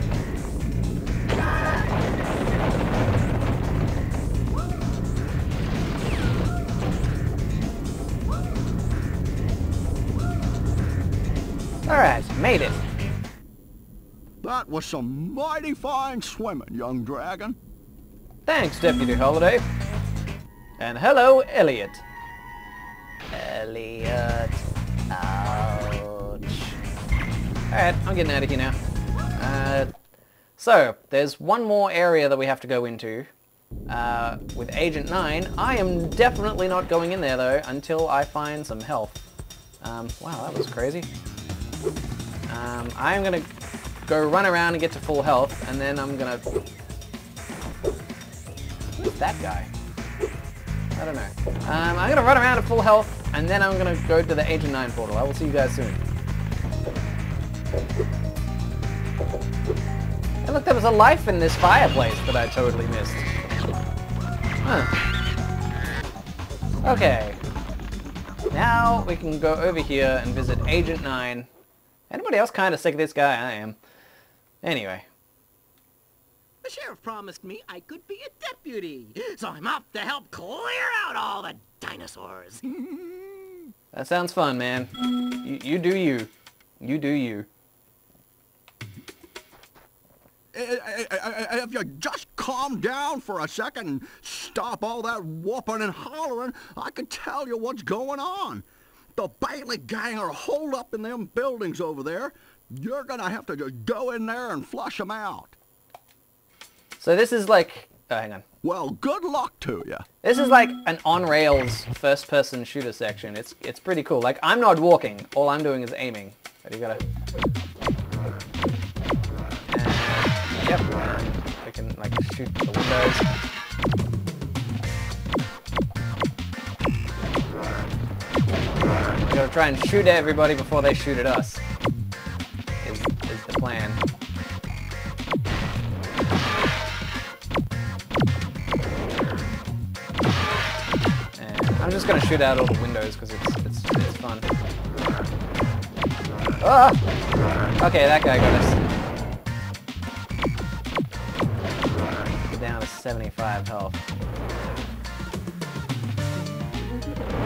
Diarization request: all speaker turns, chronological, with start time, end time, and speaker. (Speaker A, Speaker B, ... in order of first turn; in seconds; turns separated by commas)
Speaker A: 11.9-12.8, Speaker B: 14.4-17.6, Speaker A: 18.5-19.6, Speaker A: 20.8-22.0, Speaker A: 23.3-26.8, Speaker A: 27.7-28.8, Speaker A: 29.4-29.9, Speaker A: 30.6-33.3, Speaker A: 33.9-39.2, Speaker A: 39.8-41.1, Speaker A: 42.5-43.5, Speaker A: 44.1-46.4, Speaker A: 49.0-49.7, Speaker A: 51.0-56.0, Speaker A: 60.4-63.3, Speaker A: 64.6-64.9, Speaker A: 66.8-67.4, Speaker A: 68.5-71.5, Speaker A: 72.1-73.8, Speaker A: 74.6-75.1, Speaker C: 76.6-82.9, Speaker A: 83.9-87.5, Speaker B: 90.5-98.7, Speaker B: 99.2-105.6, Speaker A: 107.0-108.5, Speaker B: 108.6-110.1, Speaker A: 110.2-117.0, Speaker A: 119.7-123.3, Speaker A: 129.2-131.6, Speaker A: 132.8-134.0, Speaker A: 141.4-144.5, Speaker A: 146.6-147.0, Speaker A: 147.8-148.8, Speaker A: 152.4-154.0, Speaker A: 156.4-157.2